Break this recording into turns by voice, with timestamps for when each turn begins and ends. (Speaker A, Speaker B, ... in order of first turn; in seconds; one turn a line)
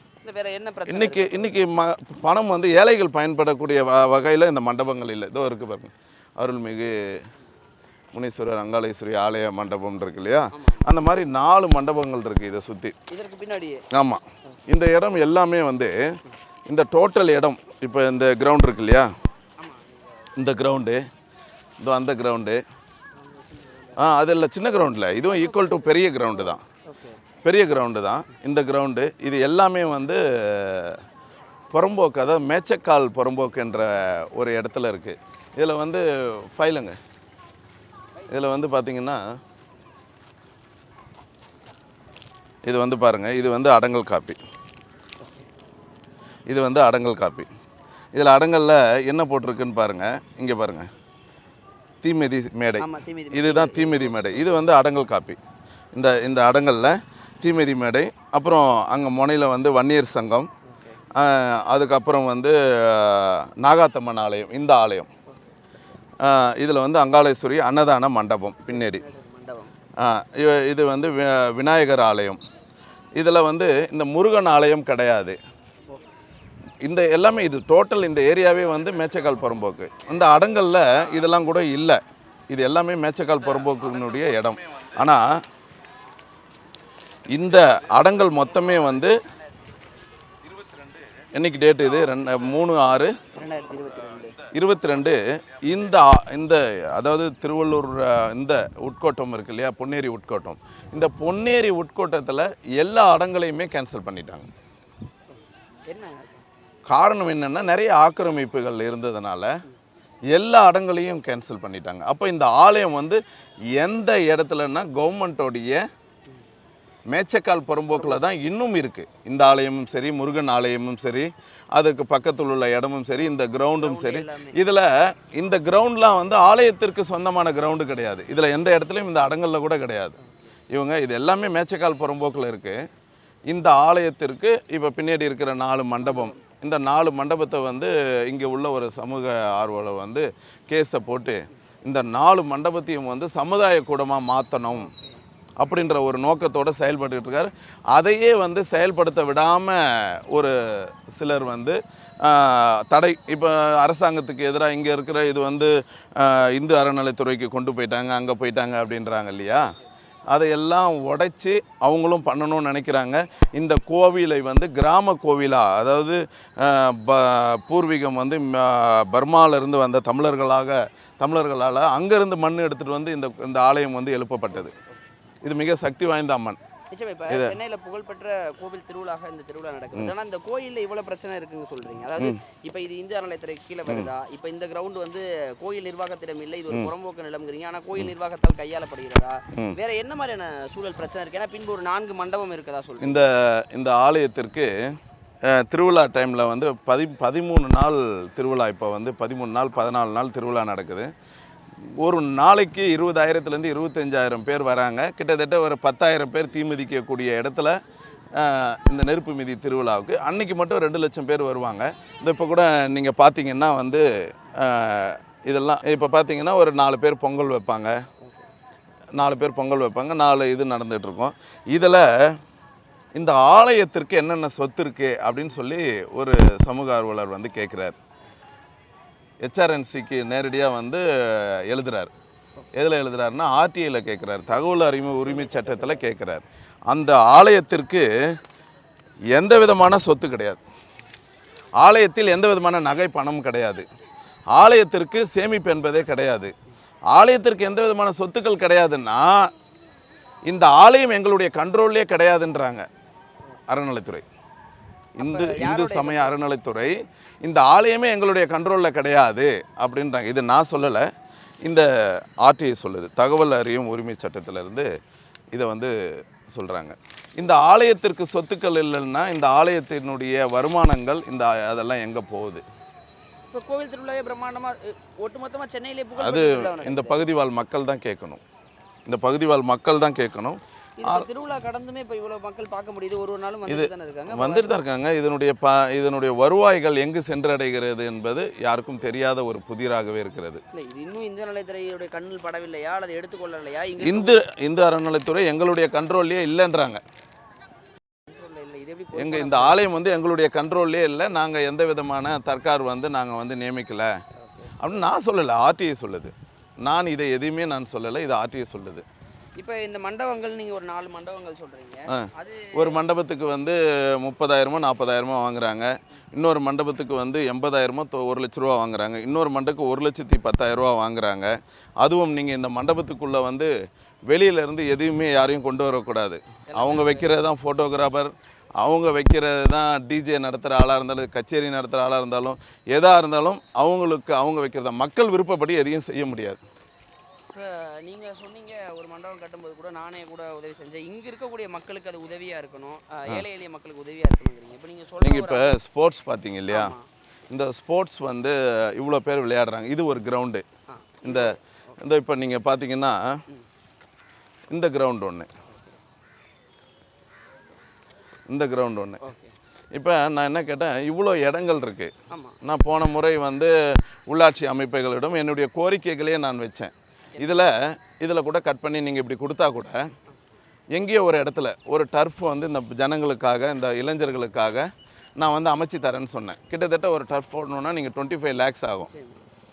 Speaker A: 0.2-1.6
Speaker B: 0.9-7.2
Speaker B: 8.1-12.9
Speaker A: 10.5-10.9
Speaker A: 13.1-13.8
Speaker B: 13.9-16.1
Speaker B: 16.7-19.1
Speaker A: 19.6-20.3
Speaker B: 20.4-21.1
Speaker B: 21.8-22.6
Speaker A: 23.2-24.0
Speaker B: 24.0-26.6
Speaker A: 25.4-25.9
Speaker A: 26.9-27.2
Speaker B: 27.4-31.0
Speaker B: 31.7-37.0
Speaker B: 38.3-39.2
Speaker B: 42.6-44.4
Speaker B: 46.5-47.5
Speaker B: 48.1-50.9
Speaker B: 52.0-55.4
Speaker A: 52.8-54.5
Speaker B: 55.9-60.5
Speaker A: 60.6-61.0
Speaker B: 61.1-65.1
Speaker B: 66.2-69.0
Speaker A: 68.7-69.7
Speaker B: 70.0-72.4
Speaker B: 73.2-75.4
Speaker B: 76.8-85.4
Speaker B: 87.3-89.2
Speaker B: 91.3-93.2
Speaker A: 93.3-94.4
Speaker B: 94.4-104.5
Speaker A: 105.9-106.4
Speaker B: 106.9-109.6
Speaker B: 110.3-113.2
Speaker B: 113.7-115.8
Speaker B: 117.1-130.2
Speaker A: 123.8-124.5
Speaker B: 130.7-132.8
Speaker B: 133.5-144.9
Speaker A: 136.0-136.4
Speaker A: 144.7-145.2
Speaker B: 145.6-159.7
Speaker B: 160.3-174.7
Speaker B: 175.4-176.6
Speaker A: 176.9-193.2
Speaker B: 177.3-177.5
Speaker B: 193.0-194.7
Speaker B: 195.4-201.1
Speaker B: 202.0-207.8
Speaker B: 208.3-218.0
Speaker B: 219.2-222.4
Speaker B: 223.1-228.0
Speaker B: 229.4-232.1
Speaker B: 232.7-238.1
Speaker A: 235.5-235.9
Speaker B: 239.3-240.6
Speaker B: 241.8-243.8
Speaker B: 244.5-246.5
Speaker B: 247.1-249.5
Speaker B: 250.5-252.9
Speaker B: 253.7-254.2
Speaker B: 255.2-261.1
Speaker A: 255.2-256.4
Speaker B: 261.6-264.9
Speaker B: 265.5-272.6
Speaker A: 273.5-277.2
Speaker B: 276.1-278.4
Speaker B: 279.1-281.3
Speaker A: 281.0-284.7
Speaker B: 283.7-290.6
Speaker A: 290.7-294.4
Speaker B: 294.0-297.0
Speaker A: 298.3-299.8
Speaker B: 299.1-304.2
Speaker A: 304.4-304.7
Speaker B: 304.8-309.0
Speaker A: 309.6-313.0
Speaker B: 312.1-323.7
Speaker B: 324.3-336.6
Speaker A: 326.7-327.3
Speaker A: 337.5-345.7
Speaker B: 345.2-346.9
Speaker A: 346.7-347.1
Speaker B: 347.5-350.6
Speaker A: 350.9-352.0
Speaker B: 351.2-353.4
Speaker B: 354.7-355.5
Speaker B: 358.5-359.2
Speaker A: 359.2-359.5
Speaker B: 359.9-363.7
Speaker A: 362.3-362.6
Speaker B: 364.3-370.1
Speaker A: 367.4-367.6
Speaker B: 370.9-379.1
Speaker A: 379.1-379.4